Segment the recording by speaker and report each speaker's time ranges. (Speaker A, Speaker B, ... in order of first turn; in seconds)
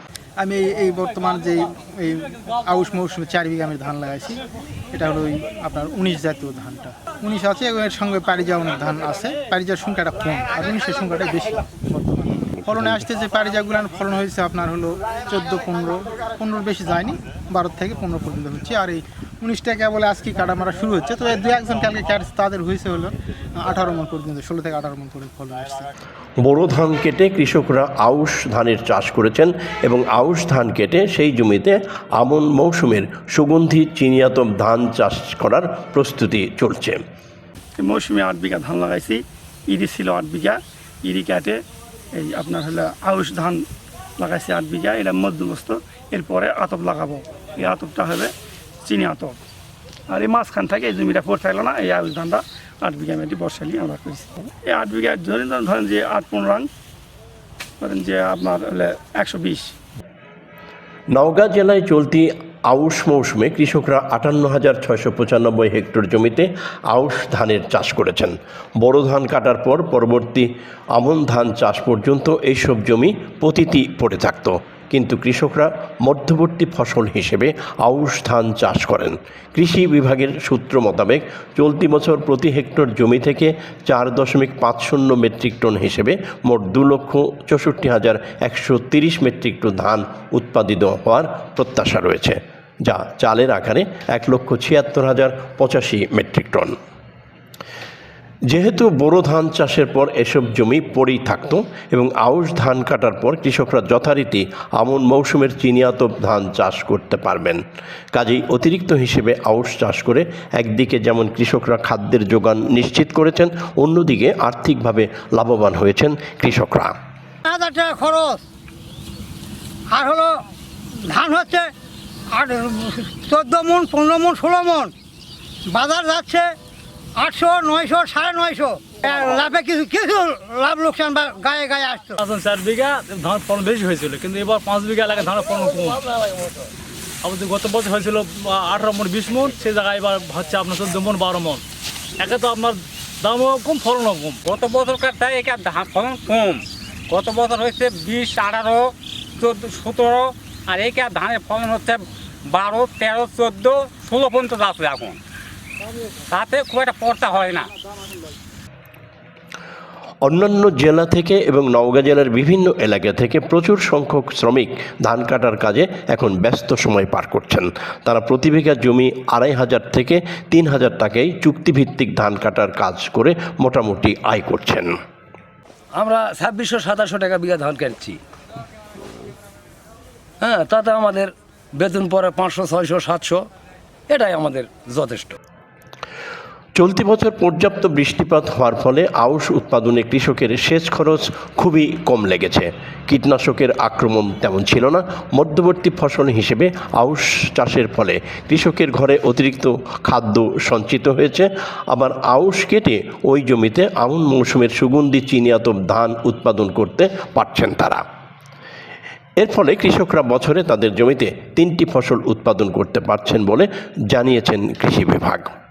Speaker A: 0.4-4.4, 4.9-25.9
Speaker B: 26.4-37.0, 61.1-96.8, 98.5-116.9, 160.2-174.9, 186.8-208.0, 209.4-215.5
Speaker C: 37.8-41.6, 42.1-43.6, 44.2-48.3, 48.8-49.4, 50.1-56.7, 57.8-59.7
Speaker D: 117.5-118.4, 119.9-120.4, 121.0-121.7, 122.3-124.9, 125.7-126.5, 127.2-132.2
Speaker E: 132.2-136.3, 137.2-141.6, 142.2-144.4
Speaker F: 144.4-155.2, 156.3-157.7
Speaker G: 175.9-178.2, 180.4-183.5, 184.1-185.4